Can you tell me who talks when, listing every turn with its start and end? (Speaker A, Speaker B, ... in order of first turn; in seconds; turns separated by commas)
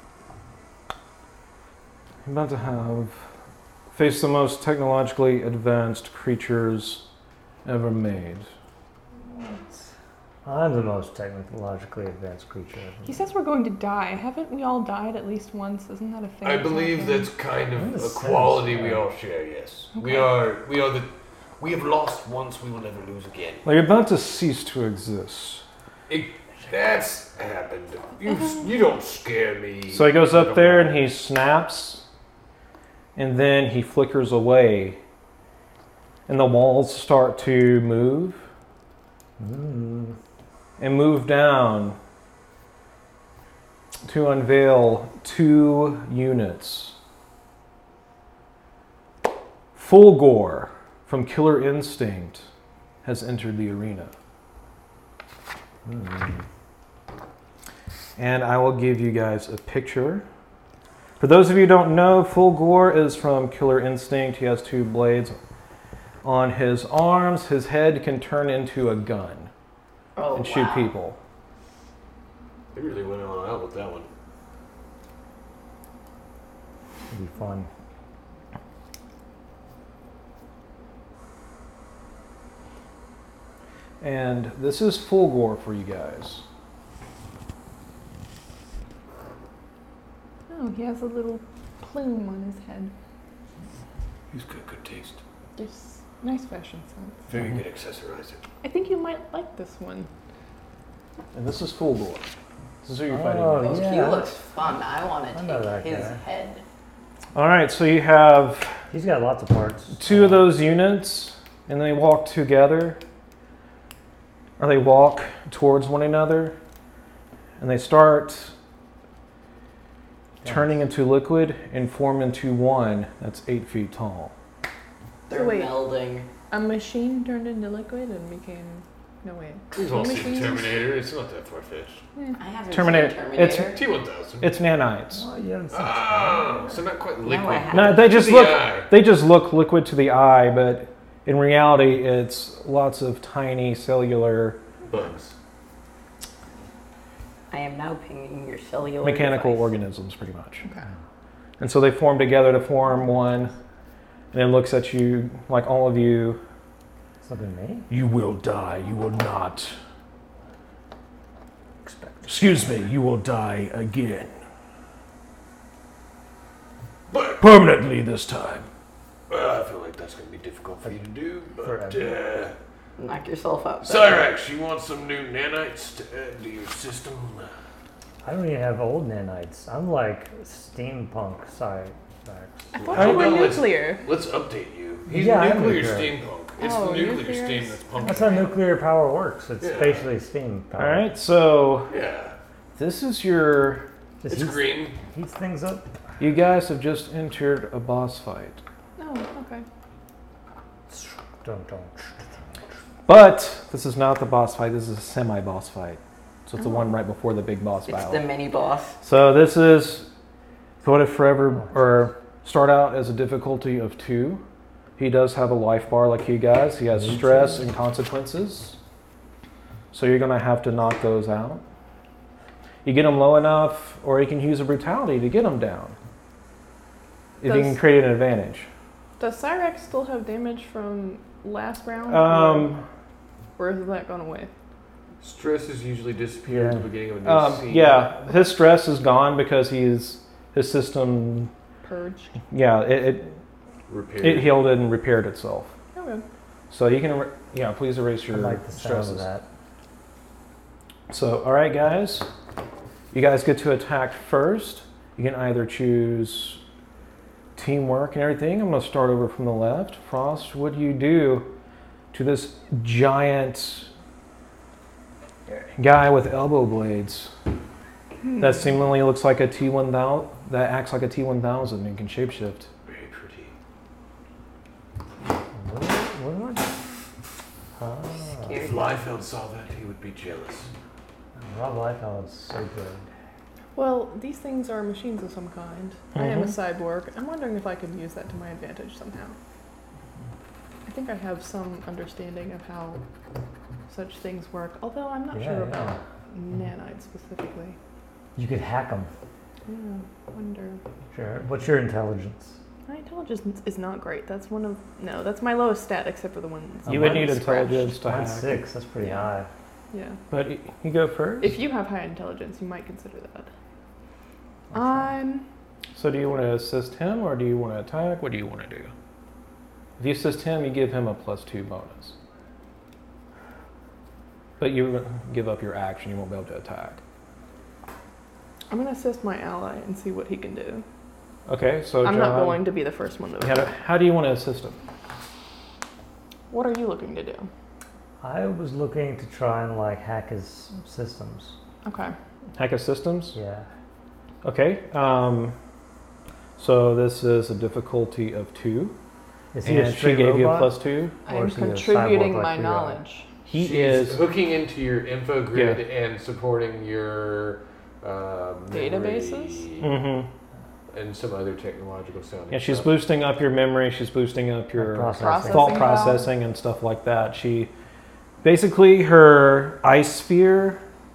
Speaker A: 2.2-3.2, Speaker A: 3.9-7.0, Speaker A: 7.7-8.5, Speaker B: 9.3-9.8, Speaker B: 10.4-13.2, Speaker C: 13.1-17.3, Speaker D: 16.4-23.6, Speaker B: 17.8-19.1, Speaker C: 19.9-20.3, Speaker A: 23.6-25.6, Speaker D: 26.1-31.0, Speaker A: 29.9-32.0, Speaker A: 33.2-35.0, Speaker A: 36.3-38.4, Speaker B: 39.4-40.2, Speaker A: 40.8-42.0, Speaker A: 44.0-47.0, Speaker A: 49.8-52.5, Speaker A: 53.0-54.1, Speaker B: 55.9-56.4, Speaker A: 58.2-60.3, Speaker A: 61.2-65.4, Speaker A: 66.2-69.5, Speaker E: 70.2-70.9, Speaker A: 70.3-71.2, Speaker D: 72.7-74.1, Speaker B: 77.1-77.7, Speaker A: 84.0-86.5, Speaker C: 90.5-92.9, Speaker D: 94.3-95.2, Speaker C: 95.6-97.2, Speaker D: 97.3-98.4, Speaker C: 98.6-100.1, Speaker A: 101.3-102.3, Speaker A: 102.8-103.7, Speaker B: 103.1-104.3, Speaker E: 103.6-106.6, Speaker B: 105.3-106.2, Speaker A: 107.3-108.8, Speaker B: 108.9-110.5, Speaker A: 110.0-113.0, Speaker A: 114.6-116.6, Speaker A: 117.6-118.5, Speaker B: 120.4-120.7, Speaker A: 120.5-124.3, Speaker E: 125.3-126.3, Speaker C: 125.3-125.8, Speaker C: 126.5-130.8, Speaker D: 129.7-132.0, Speaker E: 132.4-133.8, Speaker A: 132.7-133.8, Speaker D: 133.7-134.5, Speaker A: 134.4-135.2, Speaker B: 135.1-136.8, Speaker D: 135.7-138.9, Speaker E: 137.2-138.1, Speaker A: 137.7-144.6, Speaker D: 144.9-145.3, Speaker E: 147.5-149.7, Speaker A: 149.0-150.7, Speaker A: 151.6-153.5, Speaker A: 154.3-156.4, Speaker B: 157.2-157.9, Speaker A: 157.9-159.8, Speaker B: 161.8-162.8, Speaker A: 162.3-164.3, Speaker D: 167.1-167.4, Speaker A: 167.4-168.7, Speaker D: 169.3-172.6, Speaker B: 171.6-172.2, Speaker E: 173.0-174.3, Speaker D: 173.8-177.5, Speaker B: 178.2-182.7, Speaker C: 182.7-184.1, Speaker D: 182.8-188.6, Speaker A: 182.9-183.4, Speaker B: 185.1-186.2, Speaker C: 186.6-188.4, Speaker B: 188.0-191.0, Speaker D: 189.6-190.1, Speaker A: 190.8-191.9, Speaker D: 191.9-192.4, Speaker A: 192.8-193.9, Speaker B: 194.2-195.9, Speaker D: 194.3-195.0, Speaker A: 196.2-198.6, Speaker C: 199.0-199.7, Speaker B: 200.9-202.2, Speaker A: 203.1-208.2, Speaker E: 207.9-209.0, Speaker A: 209.0-210.1, Speaker A: 210.8-214.4, Speaker A: 215.0-218.8, Speaker B: 217.1-217.6, Speaker A: 219.9-221.6, Speaker A: 222.8-226.0, Speaker A: 227.4-228.7, Speaker C: 227.4-227.8, Speaker C: 229.2-232.7, Speaker A: 232.1-232.8, Speaker C: 233.6-234.5, Speaker D: 235.2-238.1, Speaker B: 236.5-236.9, Speaker A: 237.2-241.5, Speaker C: 241.8-242.4, Speaker A: 242.5-243.3, Speaker D: 243.9-244.6, Speaker A: 244.2-245.8, Speaker C: 245.9-246.2, Speaker A: 246.7-249.3, Speaker B: 248.3-249.4, Speaker A: 251.1-252.3, Speaker A: 253.1-256.6, Speaker A: 257.6-261.5, Speaker A: 262.1-263.9, Speaker A: 265.5-267.3, Speaker C: 268.2-268.7, Speaker A: 268.4-272.7, Speaker D: 272.9-273.5, Speaker B: 275.5-276.7, Speaker B: 277.8-278.6, Speaker E: 278.4-278.9, Speaker D: 278.6-280.7, Speaker B: 281.4-283.1, Speaker C: 283.8-289.4, Speaker A: 286.1-286.5, Speaker C: 290.9-293.0, Speaker C: 293.9-297.8, Speaker B: 295.3-296.0, Speaker B: 298.4-299.1, Speaker C: 299.7-300.8, Speaker B: 301.1-302.6, Speaker C: 302.9-308.0, Speaker B: 306.9-307.3, Speaker A: 306.9-308.6, Speaker B: 308.0-309.5, Speaker C: 309.0-309.3, Speaker C: 309.9-310.2, Speaker A: 310.3-311.6, Speaker C: 311.4-313.5, Speaker C: 314.7-315.5, Speaker B: 314.7-315.0, Speaker A: 315.9-318.9, Speaker A: 320.0-322.2, Speaker A: 324.6-327.0, Speaker C: 328.7-330.9, Speaker A: 331.5-332.6, Speaker C: 332.0-333.7, Speaker A: 333.4-334.8, Speaker C: 336.5-337.5, Speaker B: 338.2-341.6, Speaker C: 341.8-342.1, Speaker A: 342.6-343.4, Speaker B: 343.3-343.7, Speaker A: 344.4-345.6, Speaker A: 346.6-349.0, Speaker B: 349.5-350.7, Speaker A: 349.6-351.2, Speaker B: 351.3-353.0, Speaker C: 351.3-353.3, Speaker A: 353.5-354.3, Speaker D: 353.6-359.9, Speaker A: 355.5-355.8, Speaker C: 358.7-359.6, Speaker A: 359.8-360.3, Speaker D: 360.9-362.9, Speaker A: 362.5-367.7, Speaker B: 364.8-366.0, Speaker C: 365.2-366.3, Speaker A: 368.4-370.8